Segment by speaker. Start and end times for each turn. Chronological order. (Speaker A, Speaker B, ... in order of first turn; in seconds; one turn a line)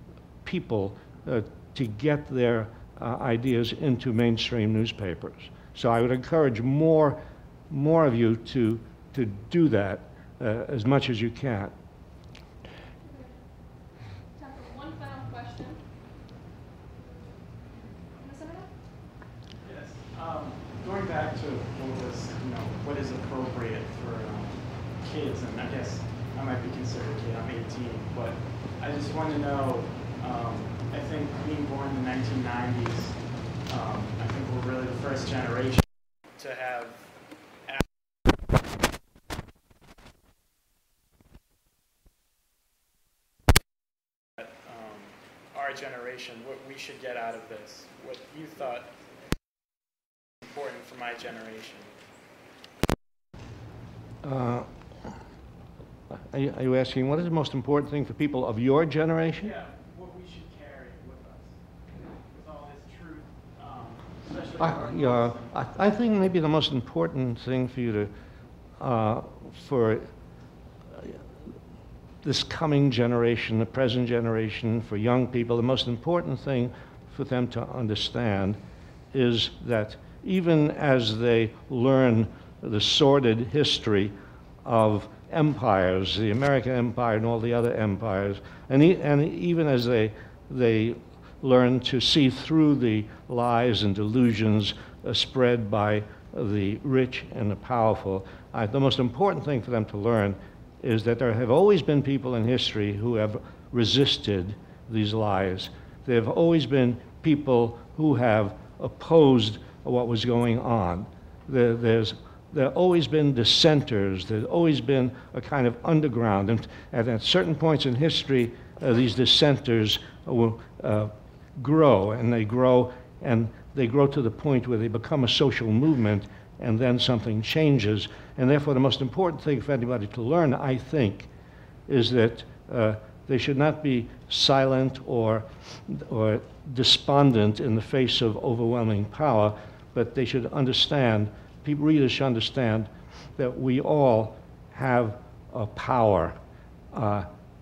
Speaker A: 0.4-11.7
Speaker B: 13.0-13.4
Speaker B: 14.3-15.8
Speaker B: 18.1-18.7
Speaker C: 19.6-37.1
Speaker C: 44.4-48.9
Speaker C: 50.4-52.0
Speaker A: 54.2-54.7
Speaker A: 56.3-59.5
Speaker C: 59.4-61.6
Speaker C: 62.3-65.6
Speaker A: 64.6-68.1
Speaker A: 68.8-70.1
Speaker A: 70.9-71.2
Speaker A: 72.2-78.6
Speaker A: 79.1-131.3
Speaker A: 131.9-146.4
Speaker A: 146.9-147.3